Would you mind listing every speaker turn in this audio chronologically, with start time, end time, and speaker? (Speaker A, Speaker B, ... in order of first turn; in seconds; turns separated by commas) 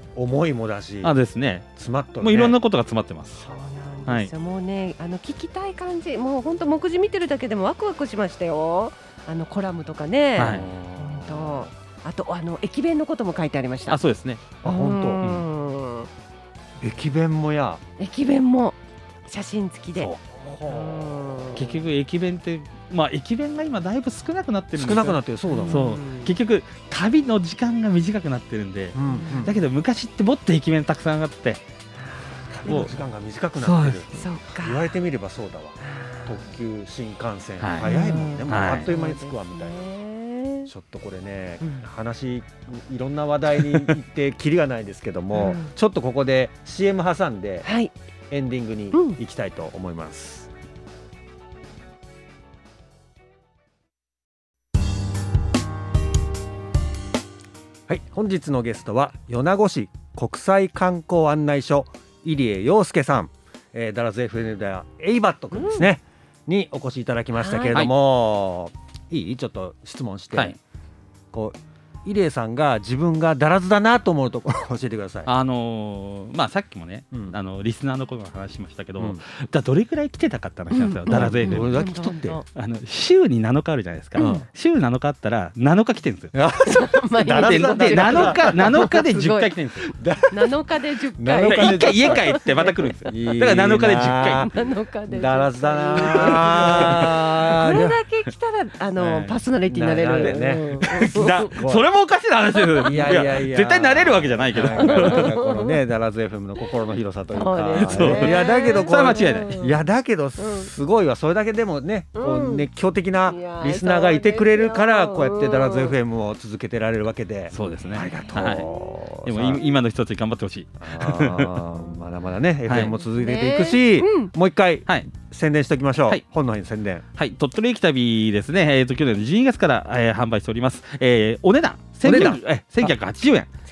Speaker A: 0.1-1.2, Speaker B: 1.0-1.7, Speaker A: 1.8-2.6, Speaker B: 2.2-3.5, Speaker C: 3.4-14.0, Speaker B: 10.4-10.7, Speaker A: 10.4-11.7, Speaker B: 13.9-14.5, Speaker A: 14.6-15.2, Speaker C: 14.6-16.1, Speaker A: 16.8-17.8, Speaker C: 18.0-21.8, Speaker B: 19.9-20.2, Speaker A: 20.4-21.3, Speaker B: 21.5-31.6, Speaker A: 24.8-25.9, Speaker C: 25.5-26.3, Speaker A: 28.9-29.6, Speaker C: 29.1-29.6, Speaker C: 32.1-33.0, Speaker A: 32.5-39.9, Speaker B: 32.6-32.9, Speaker B: 33.6-34.2, Speaker C: 34.1-34.9, Speaker C: 35.8-36.4, Speaker B: 37.6-37.9, Speaker C: 37.8-40.7, Speaker B: 38.5-38.9, Speaker A: 40.7-47.7, Speaker C: 41.6-41.9, Speaker B: 43.6-43.9, Speaker C: 45.3-45.7, Speaker C: 47.6-47.9, Speaker A: 48.3-50.5, Speaker C: 48.9-49.2, Speaker A: 57.9-70.6, Speaker C: 65.5-65.9, Speaker C: 67.3-67.8, Speaker A: 71.3-75.3, Speaker B: 75.3-81.8, Speaker A: 77.1-77.4, Speaker C: 80.7-82.4, Speaker A: 81.1-82.4, Speaker B: 82.5-86.3, Speaker C: 84.2-84.5, Speaker A: 84.2-84.5, Speaker A: 86.3-89.2, Speaker C: 86.6-89.7, Speaker B: 87.3-89.9, Speaker A: 89.9-90.5, Speaker C: 90.3-93.2, Speaker A: 91.2-92.3, Speaker B: 91.4-94.5, Speaker A: 93.0-94.5, Speaker C: 94.3-101.5, Speaker A: 95.1-98.0, Speaker B: 96.0-97.1, Speaker A: 99.0-101.9, Speaker B: 100.2-105.4, Speaker C: 102.6-103.2, Speaker A: 102.8-119.7, Speaker C: 104.6-105.8, Speaker C: 107.3-109.8, Speaker B: 107.8-109.5, Speaker C: 110.4-110.7, Speaker C: 112.1-112.7, Speaker C: 113.2-116.0, Speaker B: 117.5-121.6, Speaker C: 117.9-118.8, Speaker A: 120.8-127.0, Speaker B: 122.7-123.0, Speaker C: 122.9-124.3, Speaker B: 127.2-133.5, Speaker A: 132.0-132.9